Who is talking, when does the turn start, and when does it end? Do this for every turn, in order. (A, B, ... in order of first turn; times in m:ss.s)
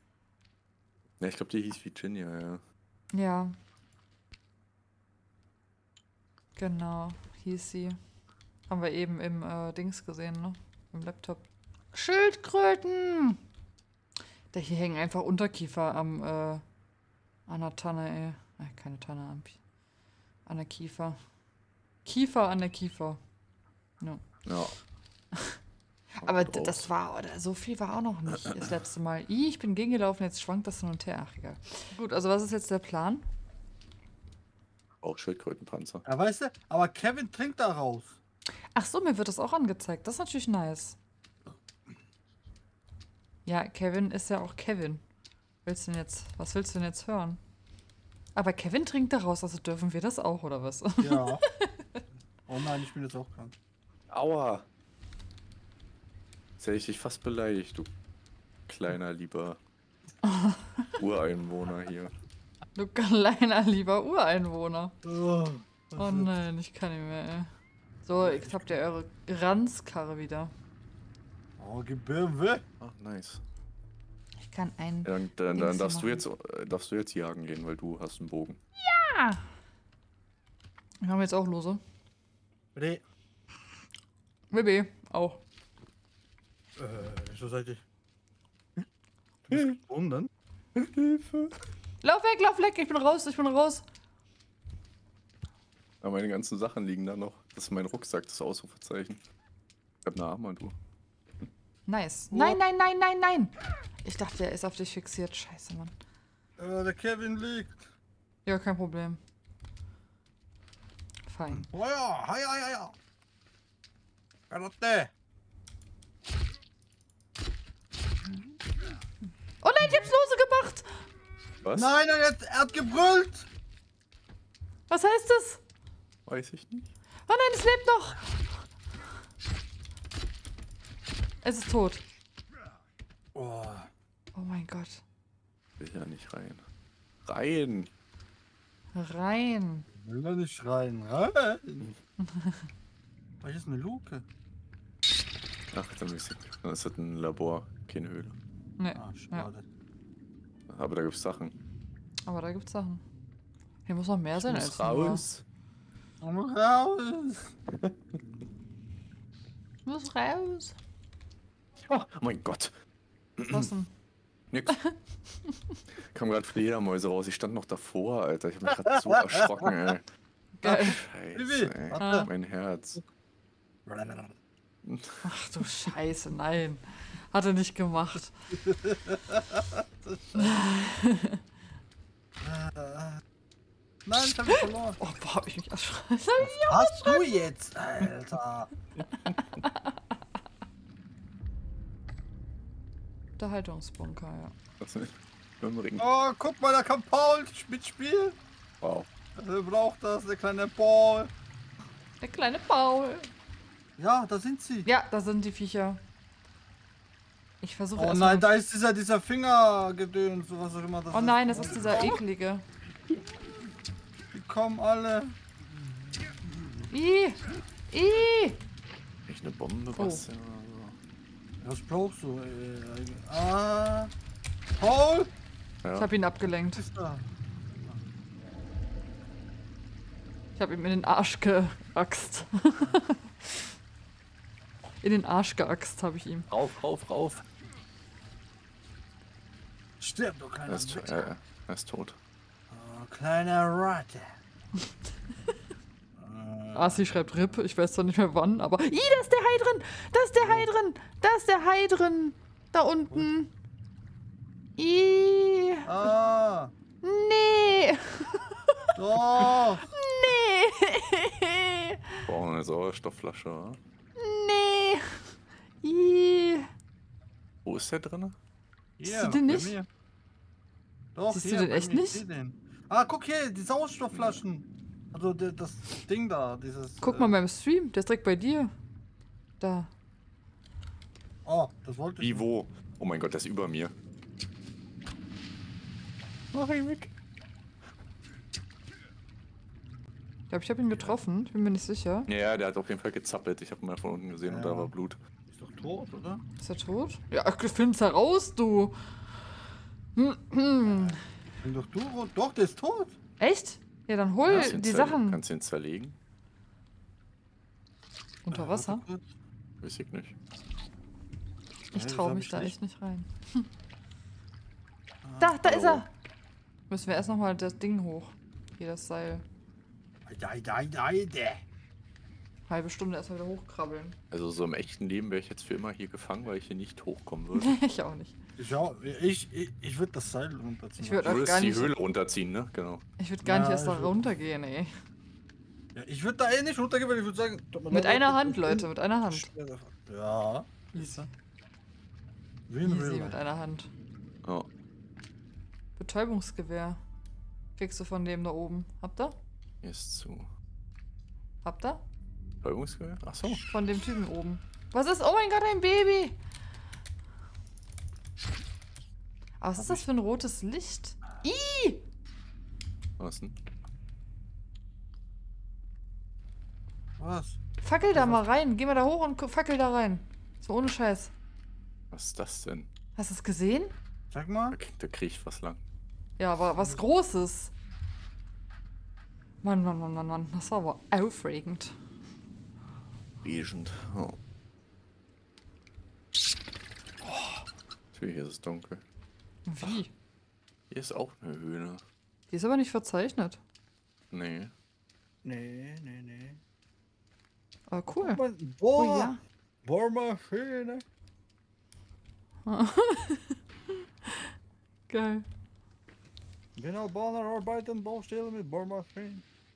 0:01.2-0:02.6 A
0:03.1-0:03.6 B
0:06.6-0:08.0 B
0:08.7-0:13.4 B
0:14.5-0:16.6 B
0:17.5-0:19.6 B
0:20.4-0:21.2 B
0:22.0-0:23.2 B
0:24.4-0:24.8 A
0:25.3-0:25.6 B
0:26.1-0:33.2 B
0:26.2-0:26.9 A
0:35.0-0:36.0 A
0:36.0-0:38.2 C
0:38.7-0:41.0 B
0:43.4-0:45.0 B
0:45.6-0:47.4 B
0:48.3-0:52.0 B
0:51.0-0:51.4 C
0:52.5-0:53.5 C
0:54.1-0:54.6 A
0:56.6-0:57.9 A
0:58.7-0:59.6 A
1:00.2-1:00.9 B
1:01.0-1:02.1 A
1:02.7-1:04.9 B
1:05.0-1:06.3 C
1:06.0-1:07.5 B
1:08.0-1:10.5 B
1:08.1-1:08.7 C
1:11.6-1:12.6 C
1:12.8-1:13.4 A
1:14.4-1:16.2 B
1:15.0-1:18.6 A
1:18.8-1:19.5 B
1:21.0-1:21.8 B
1:22.7-1:23.0 C
1:24.5-1:25.4 B
1:26.8-1:27.8 C
1:29.4-1:30.3 C
1:30.8-1:31.5 A
1:32.0-1:33.8 B
1:36.0-1:39.2 A
1:40.0-1:40.8 A
1:41.9-1:45.9 B
1:42.3-1:42.6 C
1:46.6-1:47.9 C
1:48.4-1:49.2 B
1:51.3-1:51.6 B
1:51.5-1:52.9 C
1:54.5-1:55.1 C
1:59.6-2:00.9 B
2:01.6-2:01.9 A
2:01.7-2:03.5 C
2:04.9-2:05.6 B
2:06.2-2:06.9 A
2:07.3-2:08.2 B
2:11.4-2:12.0 B
2:13.3-2:13.9 C
2:14.3-2:15.0 B
2:15.8-2:16.6 A
2:17.2-2:17.9 A
2:18.9-2:19.9 B
2:19.9-2:21.9 C
2:22.2-2:22.6 B
2:23.4-2:24.2 C
2:25.7-2:28.4 A
2:28.8-2:29.5 B
2:28.9-2:29.6 C
2:30.7-2:31.5 A
2:32.2-2:33.0 B
2:33.8-2:35.2 B
2:34.4-2:35.4 A
2:36.2-2:37.5 C
2:39.8-2:40.8 B
2:41.9-2:42.7 A
2:43.4-2:43.7 A
2:43.5-2:43.9 B
2:44.5-2:44.8 A
2:45.5-2:45.7 B
2:46.1-2:50.0 A
2:48.9-2:49.7 C
2:50.6-2:51.0 B
2:50.6-2:52.3 C
2:50.7-2:53.0 A
2:52.0-2:52.3 B
2:53.8-2:54.4 C
2:54.8-2:55.2 A
2:55.2-2:58.3 B
2:58.6-3:00.4 C
3:00.4-3:01.4 B
3:02.4-3:03.2 C
3:04.0-3:05.0 C
3:05.0-3:07.4 B
3:06.4-3:08.7 C
3:09.1-3:09.9 B
3:13.4-3:14.5 B
3:14.8-3:16.0 A
3:16.0-3:18.4 C
3:18.8-3:19.1 A
3:19.4-3:21.3 C
3:22.2-3:23.3 B
3:24.0-3:24.9 C
3:24.8-3:26.0 B
3:27.6-3:28.5 B
3:28.0-3:32.2 C
3:31.1-3:32.6 B
3:34.3-3:35.4 C
3:36.9-3:38.6 B
3:39.3-3:41.0 A
3:39.9-3:40.2 B
3:41.6-3:44.1 C
3:44.8-3:45.3 C
3:45.8-3:46.1 A
3:46.0-3:46.8 B
3:46.8-3:47.2 C
3:50.6-3:53.6 B
3:55.0-3:56.5 B
3:56.5-3:57.4 A
4:00.0-4:01.3 C
4:00.6-4:02.2 A
4:02.7-4:04.4 C
4:06.2-4:07.2 C
4:06.7-4:13.5 B
4:10.4-4:10.7 C
4:14.8-4:15.9 B
4:15.8-4:16.7 C
4:17.0-4:18.8 B
4:19.0-4:19.8 C
4:19.9-4:22.2 B
4:22.2-4:23.8 A
4:24.2-4:26.7 B
4:27.6-4:28.4 A
4:29.0-4:29.9 C
4:29.0-4:29.8 B
4:31.1-4:37.3 C
4:31.3-4:32.2 B
4:34.1-4:34.4 A
4:37.0-4:38.7 B
4:39.6-4:39.9 B
4:41.4-4:42.5 C
4:42.2-4:43.9 A
4:46.5-4:47.1 A
4:50.5-4:52.3 B
4:52.3-4:55.2 A
4:54.4-4:54.9 C
4:55.5-4:56.4 C
4:56.6-4:59.5 B
5:00.1-5:01.2 B
5:00.8-5:03.2 C
5:03.4-5:05.4 B
5:04.4-5:06.2 A
5:08.4-5:09.0 B
5:08.5-5:09.2 C
5:09.8-5:10.4 A
5:11.9-5:12.7 C
5:11.9-5:13.7 B
5:15.2-5:15.9 C
5:15.4-5:16.1 B
5:15.7-5:16.0 A
5:16.9-5:19.4 B
5:20.2-5:21.6 C
5:22.7-5:24.2 B
5:24.3-5:27.8 A
5:27.6-5:28.3 B
5:28.6-5:31.5 C
5:31.0-5:31.9 B
5:31.2-5:33.0 A
5:33.2-5:34.9 B
5:33.4-5:34.3 C
5:35.9-5:41.3 C
5:37.9-5:39.5 B
5:40.9-5:41.3 B
5:42.7-5:43.4 C
5:42.8-5:43.9 B
5:46.0-5:47.0 B
5:47.8-5:49.3 B
5:49.8-5:50.5 A
5:51.6-5:52.0 B
5:52.6-5:53.6 A
5:53.7-5:56.4 B
5:59.6-6:02.0 B
5:59.8-6:00.0 C
6:03.2-6:03.6 A
6:07.2-6:08.4 C
6:07.8-6:11.3 B
6:12.1-6:12.9 A
6:13.2-6:13.9 B
6:14.3-6:14.8 C
6:14.7-6:15.8 A
6:16.4-6:17.7 B
6:19.6-6:22.0 B
6:23.4-6:24.4 A
6:28.1-6:29.0 A
6:29.7-6:30.1 B
6:30.9-6:32.0 A
6:32.5-6:33.6 B
6:34.3-6:34.7 A
6:35.4-6:36.6 C
6:37.9-6:38.4 B
6:38.2-6:41.0 C
6:38.9-6:39.4 B
6:42.6-6:43.6 B
6:45.1-6:45.4 B
6:46.8-6:49.4 C